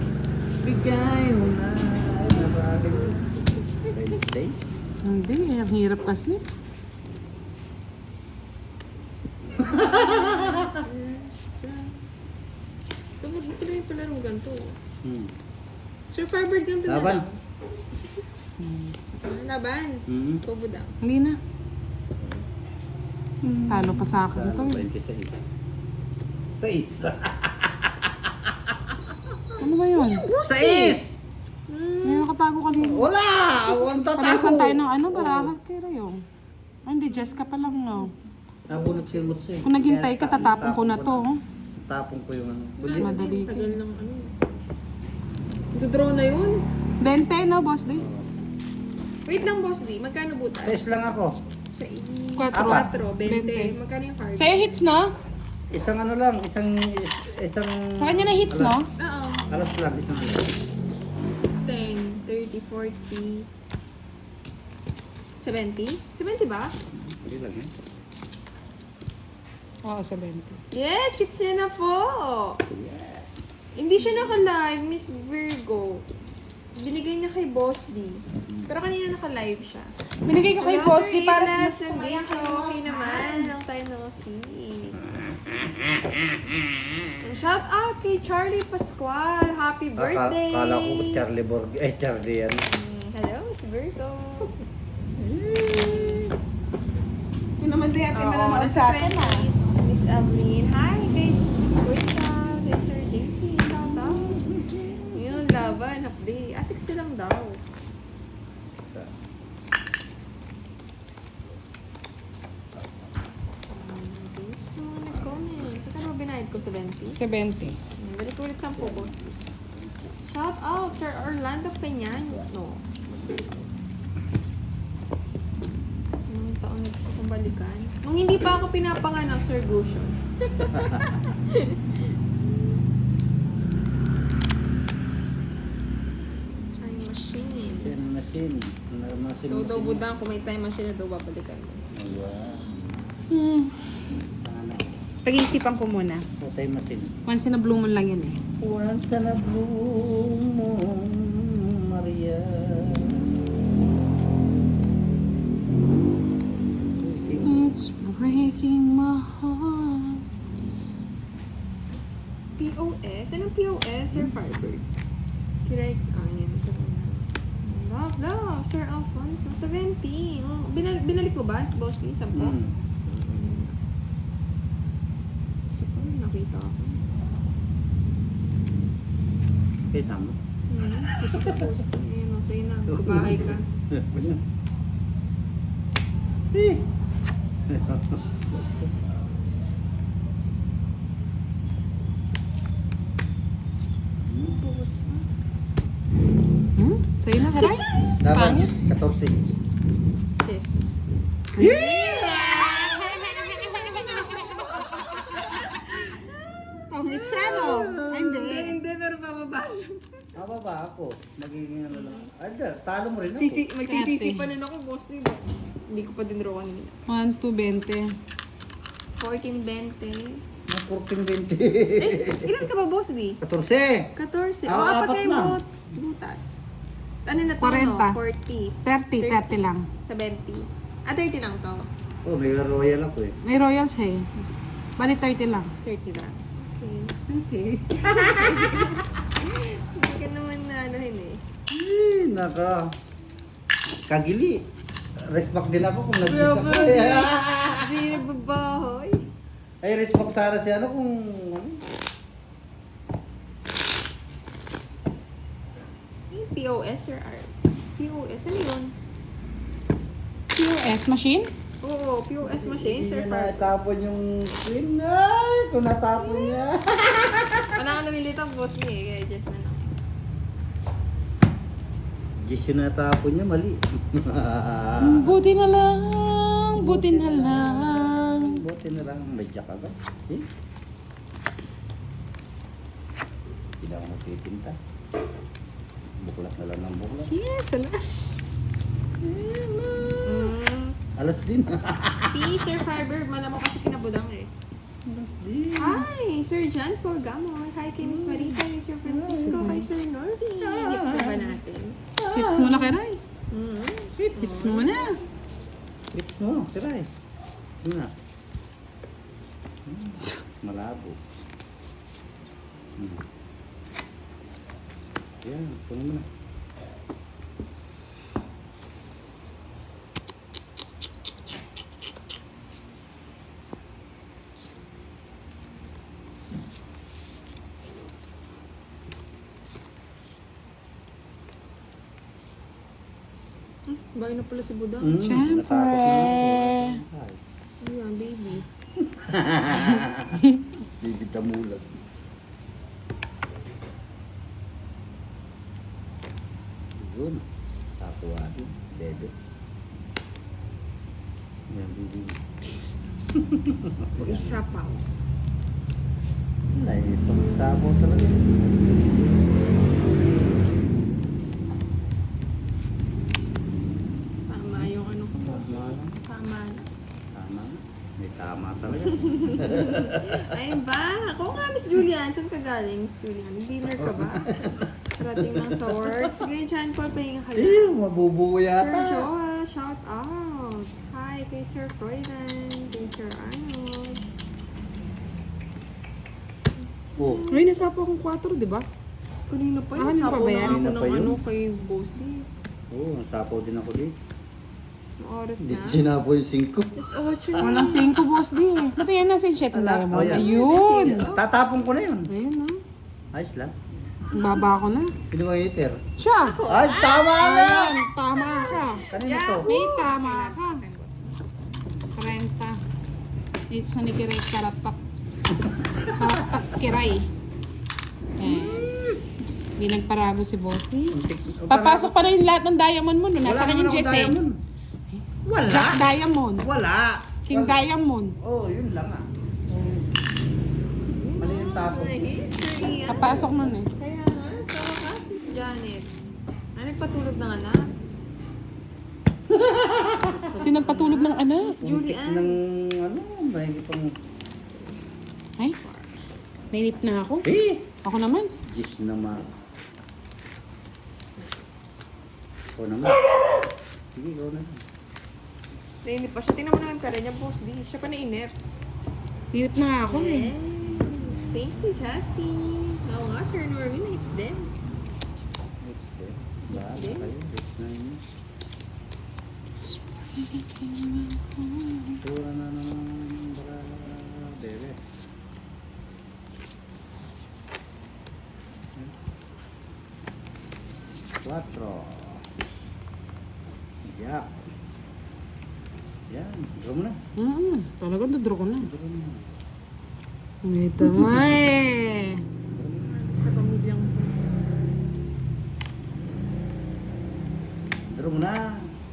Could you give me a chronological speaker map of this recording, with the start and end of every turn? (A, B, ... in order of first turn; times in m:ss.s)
0:00.6-0:03.3 A
0:03.0-0:04.1 B
0:03.9-0:04.7 A
0:05.0-0:06.4 C
0:09.3-0:12.0 B
0:09.6-0:10.8 A
0:13.2-0:14.8 B
0:15.0-0:15.4 A
0:16.1-0:17.4 B
0:16.9-0:17.2 A
0:18.6-0:19.1 C
0:19.1-0:21.0 B
0:20.1-0:20.4 A
0:21.0-0:21.4 C
0:23.4-0:25.5 A
0:23.7-0:24.8 C
0:26.5-0:29.0 A
0:29.6-0:30.3 C
0:30.0-0:31.0 B
0:30.3-0:31.2 A
0:31.7-0:32.3 B
0:32.0-0:33.1 C
0:32.8-0:35.5 A
0:34.2-0:36.2 C
0:36.8-0:38.1 C
0:37.1-0:38.1 B
0:38.7-0:41.3 A
0:38.7-0:39.2 B
0:39.6-0:41.4 C
0:41.8-0:43.2 A
0:42.8-0:44.3 B
0:43.0-0:43.8 C
0:45.7-0:46.6 B
0:47.0-0:48.0 C
0:48.0-0:48.3 A
0:49.2-0:51.1 B
0:50.6-0:51.4 A
0:51.7-0:54.8 B
0:52.4-0:53.7 C
0:52.5-0:52.9 A
0:54.4-0:55.1 C
0:55.7-0:58.8 A
0:58.0-0:58.8 C
0:59.0-0:59.4 B
0:59.5-1:00.6 A
1:01.6-1:03.5 B
1:05.4-1:06.8 B
1:06.9-1:07.7 A
1:09.8-1:10.6 C
1:10.7-1:12.6 B
1:12.7-1:13.3 A
1:13.8-1:16.0 B
1:14.0-1:14.4 A
1:16.8-1:19.9 B
1:20.2-1:23.6 C
1:20.6-1:25.0 B
1:25.2-1:26.9 A
1:27.2-1:31.2 B
1:30.0-1:32.6 A
1:32.6-1:34.6 B
1:35.2-1:36.3 A
1:35.4-1:36.3 B
1:37.6-1:39.5 C
1:38.1-1:44.4 B
1:43.6-1:45.8 A
1:45.1-1:47.6 B
1:48.7-1:49.1 A
1:53.7-1:57.2 B
1:57.2-1:57.8 C
1:58.0-1:59.3 B
1:58.8-2:00.1 A
2:00.2-2:02.8 B
2:06.3-2:12.0 B
2:10.7-2:11.3 A
2:16.7-2:18.0 B
2:17.8-2:20.0 A
2:19.5-2:21.9 B
2:21.9-2:23.1 A
2:23.3-2:23.8 C
2:24.1-2:25.0 A
2:25.2-2:26.2 C
2:26.4-2:27.2 A
2:27.2-2:28.4 C
2:28.6-2:33.4 A
2:37.0-2:37.7 A
2:37.4-2:40.2 C
2:42.6-2:44.8 B
2:45.6-2:53.8 B
2:52.3-2:52.7 A
2:55.7-2:57.0 B
2:59.9-3:00.4 A
3:00.7-3:03.7 B
3:01.1-3:01.8 A
3:02.9-3:04.4 A
3:06.5-3:06.9 A
3:07.7-3:08.9 A
3:14.3-3:14.6 A
3:14.4-3:15.3 B
3:16.8-3:18.7 C
3:17.5-3:18.6 B
3:18.2-3:19.5 A
3:20.4-3:21.0 B
3:21.5-3:24.8 C
3:21.6-3:23.9 A
3:22.3-3:30.2 B
3:26.9-3:28.8 C
3:27.4-3:28.3 A
3:30.4-3:33.6 A
3:31.9-3:32.3 B
3:33.4-3:37.0 B
3:33.9-3:34.5 C
3:37.1-3:38.1 C
3:39.2-3:40.4 B
3:40.7-3:42.6 A
3:42.0-3:43.4 B
3:43.4-3:44.1 A
3:44.1-3:46.6 B
3:44.6-3:45.6 A
3:47.2-3:51.9 B
3:47.6-3:48.2 C
3:48.8-3:49.8 C
3:52.2-3:53.4 A
3:53.4-3:54.3 C
3:55.0-3:55.7 C
3:55.8-3:57.1 B
3:57.3-3:58.8 C
3:57.9-4:01.4 B
4:01.7-4:02.9 A
4:04.1-4:04.6 A
4:05.2-4:08.1 A
4:06.2-4:09.2 B
4:09.8-4:11.8 A
4:16.3-4:18.9 B
4:20.5-4:21.5 C
4:21.8-4:23.7 B
4:22.4-4:27.7 A
4:26.2-4:26.7 B
4:27.7-4:30.0 B
4:32.4-4:35.4 A
4:35.0-4:38.6 C
4:36.7-4:40.5 A
4:43.8-4:44.8 A
4:46.2-4:47.3 A
4:47.3-4:48.4 C
4:49.2-4:50.5 A
4:50.2-4:51.0 B
4:51.2-4:52.4 A
4:52.3-4:54.5 B
4:55.1-4:56.1 A
4:55.8-5:02.0 B
4:58.0-4:59.6 A
4:59.2-4:59.9 C
5:00.6-5:01.6 A
5:02.2-5:03.0 A
5:02.3-5:03.2 C
5:03.5-5:05.2 B
5:04.4-5:05.2 C
5:06.1-5:07.1 A
5:07.8-5:08.1 A
5:09.8-5:11.2 A
5:13.0-5:13.2 A
5:15.4-5:16.3 A
5:33.9-5:35.2 B
5:35.0-5:37.4 A
5:35.2-5:37.0 C
5:37.8-5:38.7 B
5:39.0-5:41.9 A
5:46.9-5:47.4 A
5:48.0-5:49.3 A
5:51.7-5:52.4 A
5:53.3-5:54.6 A
5:54.2-5:55.0 B
5:56.7-5:58.9 A
6:04.5-6:06.8 B
6:04.7-6:06.2 A
6:07.3-6:10.4 A
6:09.2-6:18.0 B
6:14.0-6:16.3 A
6:17.6-6:19.3 A
6:18.8-6:24.4 B
6:26.6-6:27.7 B
6:27.2-6:27.4 A
6:27.5-6:28.8 C
6:29.5-6:32.5 B
6:30.0-6:30.8 C
6:30.6-6:31.4 A
6:32.9-6:34.2 A
6:35.2-6:36.0 B
6:35.6-6:37.9 A
6:37.0-6:38.1 B
6:37.6-6:41.3 C
6:39.7-6:42.3 A
6:40.2-6:41.4 B
6:42.3-6:42.8 C
6:43.3-6:44.2 A
6:44.3-6:45.1 C
6:45.3-6:46.0 A
6:46.2-6:46.6 C
6:46.3-6:47.5 B
6:46.7-6:48.0 A
6:47.4-6:49.1 C
6:48.4-6:51.4 B
6:49.1-6:49.7 A
6:49.6-6:50.8 C
6:52.1-6:52.8 C
6:53.7-6:55.0 C
6:55.6-6:56.6 A
6:56.1-6:57.3 C
6:58.4-6:59.0 C
6:58.4-6:59.2 A
6:59.8-7:04.4 C
7:01.1-7:02.2 A
7:03.4-7:04.6 A
7:05.1-7:06.7 C
7:05.4-7:07.8 A
7:07.5-7:08.4 C
7:08.4-7:10.2 A
7:11.1-7:16.1 B
7:11.3-7:13.8 A
7:13.1-7:13.9 C
7:16.8-7:18.0 B
7:19.5-7:20.5 A
7:20.4-7:22.6 B
7:20.6-7:21.8 C
7:21.8-7:24.1 A
7:25.8-7:26.1 B
7:26.7-7:27.5 C
7:27.4-7:27.9 A
7:28.0-7:28.5 C
7:28.6-7:29.5 A
7:32.7-7:33.2 A
7:34.1-7:34.8 A
7:36.0-7:38.5 B
7:39.5-7:40.5 C
7:40.0-7:44.7 B
7:40.8-7:42.0 A
7:45.8-7:48.2 A
7:46.7-7:47.3 B
7:49.8-7:52.2 C
7:52.2-7:55.0 A
8:01.4-8:02.5 A
8:04.0-8:04.6 A
8:06.3-8:07.2 A
8:07.4-8:08.9 C
8:08.8-8:09.6 A
8:10.6-8:12.4 C
8:11.0-8:11.6 A
8:12.7-8:13.1 A
8:13.0-8:14.6 B
8:18.1-8:18.9 A